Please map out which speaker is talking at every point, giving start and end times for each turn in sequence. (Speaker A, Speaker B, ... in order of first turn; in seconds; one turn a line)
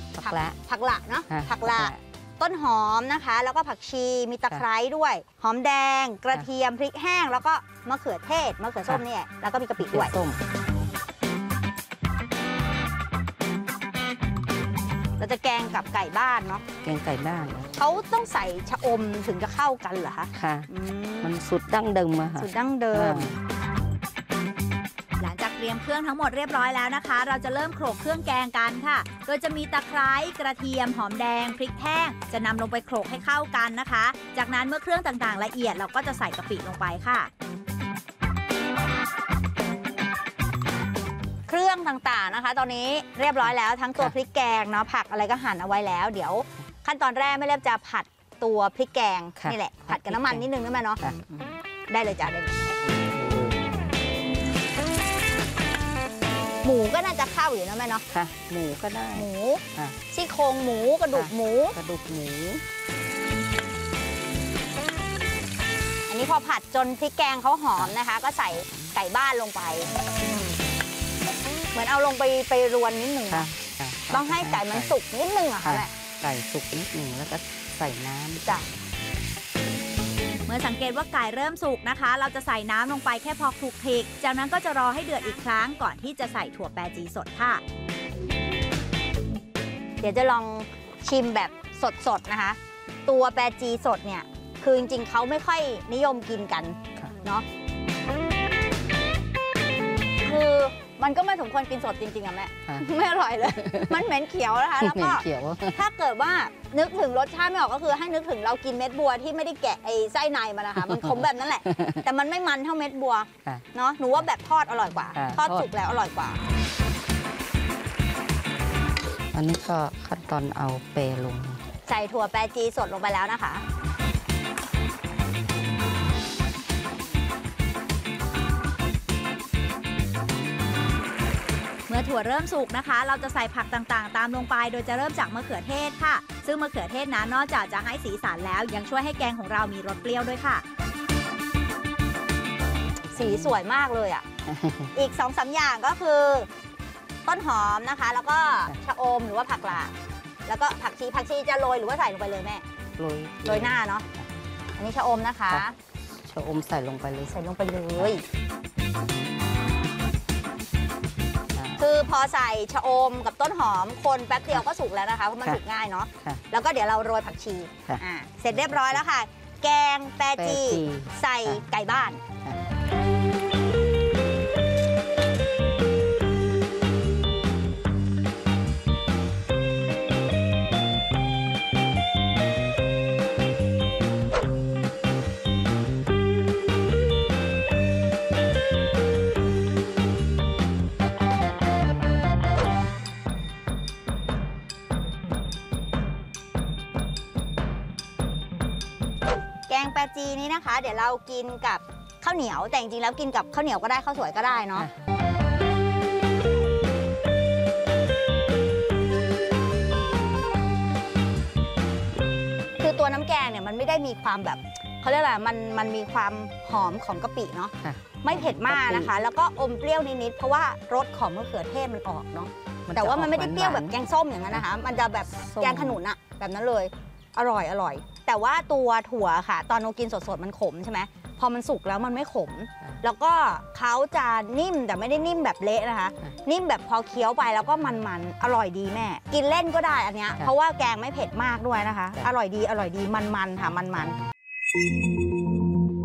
Speaker A: 0.1-0.6
Speaker B: 0.2-10.1
Speaker A: 1.3-2.0
Speaker A: 9.9-10.4
Speaker B: 15.2-16.6
Speaker A: 16.8-17.8
Speaker B: 17.7-21.4
Speaker A: 20.3-20.7
Speaker A: 21.2-23.4
Speaker B: 22.4-23.3
Speaker C: 25.2-37.3
Speaker B: 41.5-51.0
Speaker A: 49.4-50.5
Speaker A: 51.0-51.5
Speaker B: 51.9-52.7
Speaker A: 52.9-53.6
Speaker B: 56.6-58.0
Speaker A: 58.1-60.0
Speaker B: 59.1-61.8
Speaker A: 61.1-62.6
Speaker B: 66.1-70.6
Speaker A: 68.6-68.9
Speaker B: 71.7-73.5
Speaker A: 73.3-75.0
Speaker B: 74.1-75.9
Speaker A: 75.6-78.6
Speaker C: 80.5-87.6
Speaker B: 90.0-97.5
Speaker B: 100.2-116.4
Speaker A: 103.5-104.0
Speaker A: 104.8-105.8
Speaker A: 110.9-112.0
Speaker A: 115.1-115.7
Speaker A: 119.3-121.6
Speaker B: 121.9-123.6
Speaker C: 131.9-140.6
Speaker B: 143.1-144.3
Speaker A: 143.2-143.6
Speaker A: 144.5-144.9
Speaker B: 144.9-146.5
Speaker B: 147.3-149.9
Speaker B: 150.5-152.6
Speaker A: 153.0-154.2
Speaker B: 153.4-154.1
Speaker B: 154.8-155.8
Speaker A: 155.5-157.3
Speaker B: 157.3-158.2
Speaker A: 161.5-161.9
Speaker B: 161.8-172.2
Speaker A: 168.5-169.0
Speaker A: 170.3-171.6
Speaker B: 199.7-204.9
Speaker B: 212.8-244.2
Speaker A: 217.8-219.1
Speaker A: 222.9-223.9
Speaker A: 225.3-226.0